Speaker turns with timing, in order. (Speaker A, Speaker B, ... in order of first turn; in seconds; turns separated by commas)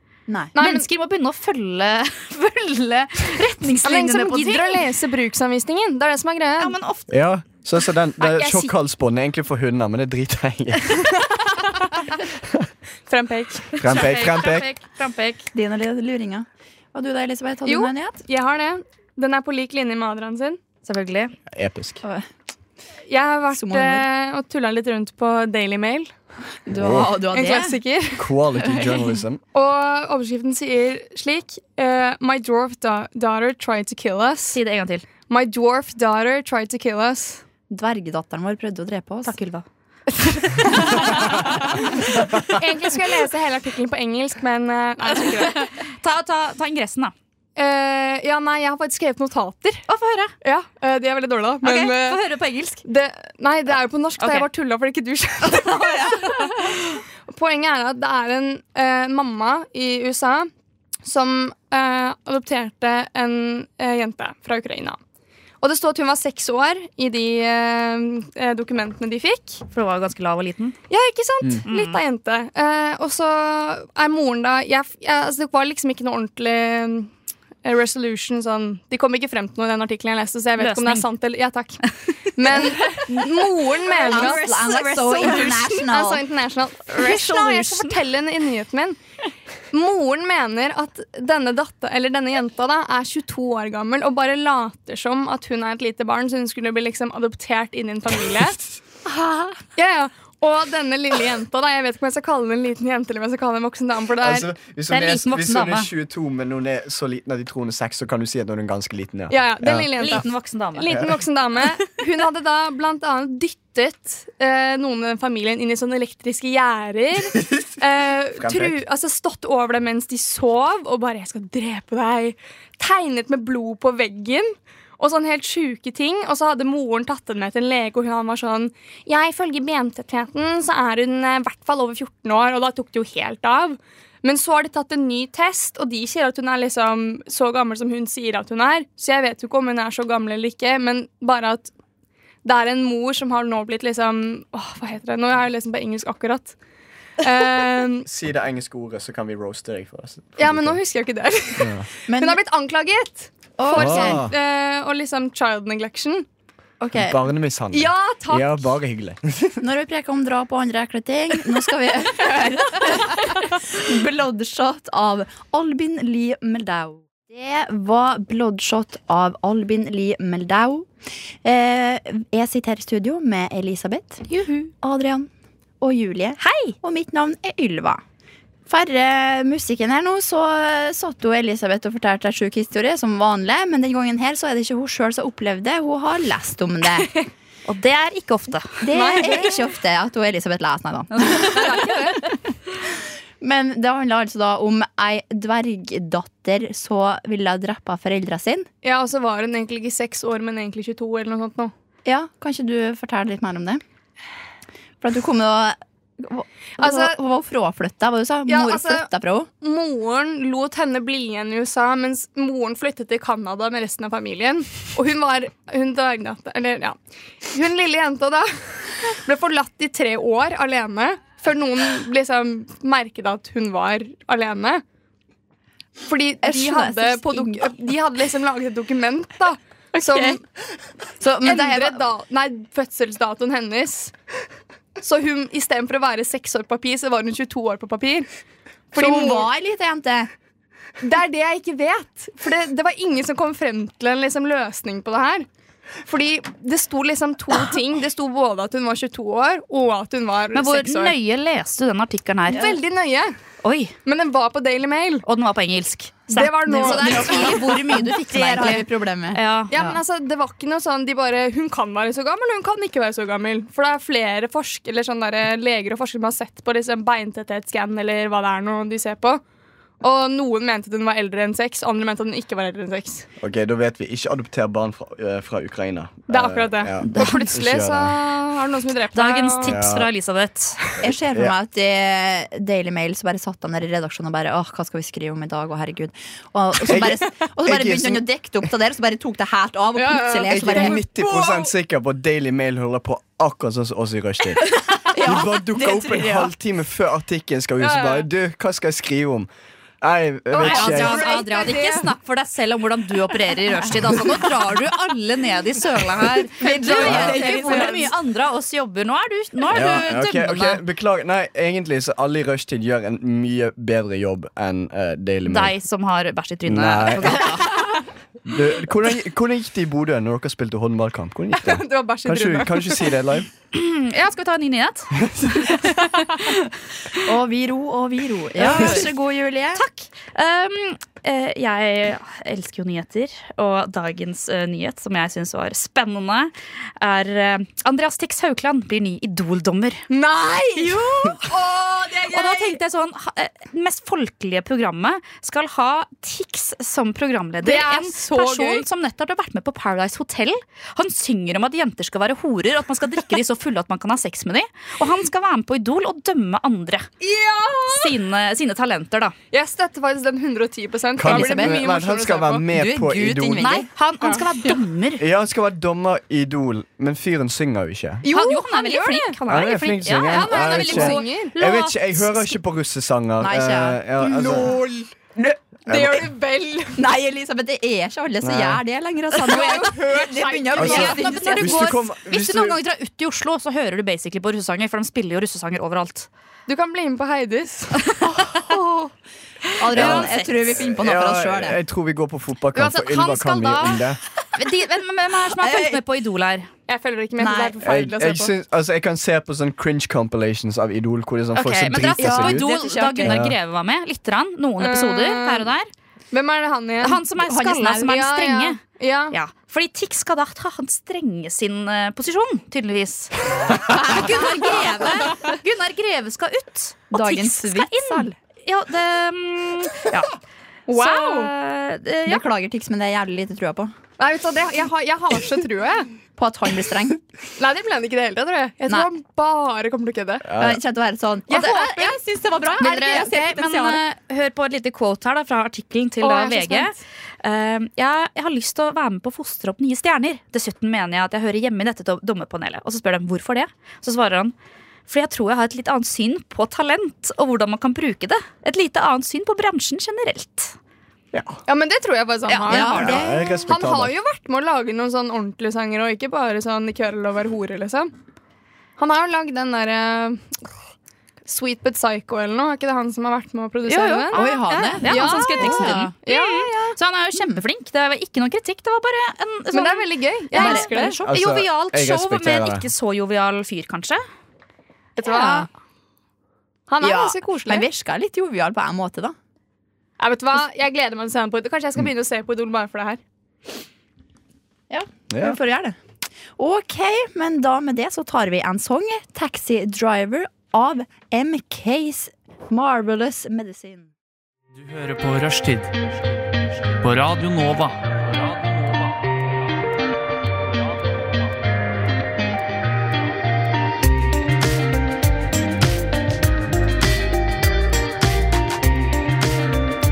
Speaker A: 0.3-0.5, Speaker B: 0.5-0.8, Speaker C: 0.6-4.9, Speaker B: 3.8-6.7, Speaker C: 6.6-7.1, Speaker D: 7.1-11.1, Speaker B: 11.3-12.0, Speaker B: 13.1-13.8, Speaker D: 13.8-14.7, Speaker C: 13.8-15.5, Speaker A: 15.5-18.2, Speaker B: 17.6-20.6, Speaker C: 20.8-21.3, Speaker D: 21.5-22.0, Speaker B: 23.1-26.1, Speaker A: 23.5-24.1, Speaker A: 26.7-27.8, Speaker D: 26.7-27.1, Speaker B: 27.2-28.3, Speaker D: 28.1-29.4, Speaker A: 28.7-29.0, Speaker B: 29.5-34.6, Speaker C: 34.5-35.1, Speaker B: 35.3-37.4, Speaker A: 37.7-39.3, Speaker C: 39.2-39.6, Speaker B: 40.1-45.7, Speaker C: 40.7-41.5, Speaker C: 45.1-47.1, Speaker B: 47.5-49.8, Speaker C: 49.9-50.3, Speaker B: 50.4-52.2, Speaker C: 51.6-52.8, Speaker B: 52.8-60.5, Speaker C: 54.2-54.5, Speaker C: 55.6-56.7, Speaker B: 61.0-65.0, Speaker B: 65.6-69.6, Speaker C: 69.7-70.8, Speaker B: 70.9-77.1, Speaker C: 71.7-72.0, Speaker B: 77.6-81.8, Speaker C: 80.6-81.1, Speaker B: 82.3-89.0, Speaker C: 83.9-85.6, Speaker A: 84.0-86.2, Speaker C: 86.9-88.0, Speaker B: 89.7-98.6, Speaker B: 99.7-104.5, Speaker D: 104.2-109.9, Speaker C: 104.9-105.9, Speaker B: 109.3-141.7, Speaker C: 110.0-111.0, Speaker D: 110.9-111.2, Speaker D: 118.4-118.8, Speaker B: 142.4-146.5, Speaker B: 147.2-148.1, Speaker D: 148.0-150.8, Speaker B: 150.4-156.3, Speaker D: 151.6-151.9, Speaker A: 152.1-152.4, Speaker A: 153.6-154.2, Speaker D: 153.7-154.3, Speaker A: 156.8-157.2, Speaker D: 156.9-159.6, Speaker B: 157.7-158.6, Speaker A: 159.6-170.9, Speaker A: 171.4-175.3, Speaker A: 175.8-178.0, Speaker C: 176.4-176.7, Speaker A: 178.7-187.2, Speaker C: 187.7-189.5, Speaker A: 188.8-191.8, Speaker B: 188.9-189.7, Speaker C: 191.1-192.1, Speaker B: 191.5-192.2, Speaker A: 193.4-198.7, Speaker B: 198.8-201.7, Speaker A: 202.0-203.8, Speaker A: 205.0-209.5, Speaker B: 206.8-207.2, Speaker B: 208.5-209.1, Speaker B: 209.6-224.8, Speaker B: 226.0-230.4, Speaker A: 226.4-227.8, Speaker A: 230.0-230.3, Speaker A: 231.2-232.0, Speaker B: 231.4-234.1, Speaker B: 235.0-238.3, Speaker B: 238.9-239.5, Speaker A: 238.9-240.3, Speaker B: 241.0-245.5, Speaker B: 246.1-251.2, Speaker C: 250.5-252.8, Speaker B: 252.5-253.3, Speaker C: 253.6-253.9, Speaker B: 254.0-255.2, Speaker C: 255.2-259.7, Speaker B: 256.3-257.7, Speaker A: 256.8-260.0, Speaker B: 259.7-269.4, Speaker B: 270.0-273.3, Speaker D: 273.4-278.2, Speaker B: 276.3-279.8, Speaker C: 277.1-277.5, Speaker C: 279.1-280.8, Speaker D: 279.6-280.1, Speaker A: 281.0-291.0, Speaker D: 281.1-281.5, Speaker D: 286.9-288.2, Speaker B: 289.9-291.7, Speaker D: 290.5-299.5, Speaker A: 294.6-296.5, Speaker B: 297.8-298.2, Speaker D: 300.0-301.3, Speaker B: 300.5-302.1, Speaker C: 300.6-310.8, Speaker A: 306.6-308.1, Speaker B: 306.7-308.1, Speaker D: 307.0-307.4, Speaker D: 309.7-315.7, Speaker C: 315.4-317.7, Speaker D: 316.6-317.6, Speaker D: 318.4-323.5, Speaker B: 321.5-323.1, Speaker C: 323.7-325.9, Speaker D: 325.3-325.7, Speaker A: 327.2-329.8, Speaker C: 328.6-329.1, Speaker C: 329.7-340.0, Speaker B: 340.1-342.8, Speaker C: 340.7-341.5, Speaker C: 342.2-357.1, Speaker B: 347.6-348.8, Speaker B: 357.2-358.2, Speaker C: 357.9-359.3, Speaker B: 359.5-362.7, Speaker D: 361.1-363.8, Speaker A: 361.2-361.9, Speaker A: 362.7-363.9, Speaker C: 363.6-365.2, Speaker D: 365.2-368.2, Speaker B: 368.2-369.4, Speaker C: 368.3-372.5, Speaker D: 369.5-374.8, Speaker B: 370.3-371.5, Speaker A: 373.4-374.7, Speaker B: 374.4-375.0, Speaker B: 375.9-377.0, Speaker A: 375.9-376.2, Speaker D: 375.9-376.2, Speaker A: 377.0-381.8, Speaker D: 378.4-378.8, Speaker C: 379.5-379.9, Speaker B: 379.5-381.5, Speaker C: 380.7-386.3, Speaker D: 380.8-382.8, Speaker B: 386.7-388.2, Speaker A: 388.3-389.0, Speaker A: 389.8-391.8, Speaker C: 389.8-390.8, Speaker B: 390.0-390.3, Speaker D: 390.7-394.2, Speaker B: 392.7-394.0, Speaker C: 394.5-396.7, Speaker A: 395.5-396.0, Speaker B: 396.9-398.5, Speaker A: 397.4-397.8, Speaker D: 397.8-403.6, Speaker C: 401.5-405.9, Speaker A: 402.1-403.4, Speaker B: 404.8-405.7, Speaker B: 406.3-407.2, Speaker C: 407.0-420.3, Speaker A: 407.4-408.2, Speaker B: 408.0-409.4, Speaker A: 413.8-415.5, Speaker A: 417.1-418.4, Speaker B: 420.9-421.5, Speaker C: 420.9-422.4, Speaker A: 422.3-423.9, Speaker B: 424.2-426.1, Speaker A: 426.4-427.2, Speaker B: 427.6-430.5, Speaker D: 430.4-430.8, Speaker A: 430.5-434.0, Speaker B: 431.5-432.2, Speaker C: 431.5-431.9, Speaker C: 432.8-444.5, Speaker B: 436.2-436.9, Speaker C: 445.1-450.7, Speaker D: 451.3-451.6, Speaker B: 451.7-458.1, Speaker C: 452.5-453.1, Speaker A: 452.7-453.6, Speaker D: 452.9-454.1, Speaker B: 459.0-460.6, Speaker B: 461.4-464.4, Speaker C: 463.9-474.2, Speaker A: 464.3-466.1, Speaker B: 465.0-466.9, Speaker B: 469.7-471.2, Speaker A: 470.5-471.1, Speaker D: 471.2-472.9, Speaker B: 475.1-475.7, Speaker C: 475.2-475.7, Speaker B: 476.9-477.9, Speaker A: 477.0-479.3, Speaker B: 480.2-483.2, Speaker A: 484.9-485.9, Speaker D: 485.3-485.6, Speaker A: 486.6-494.1, Speaker E: 494.8-499.3, Speaker E: 500.8-501.4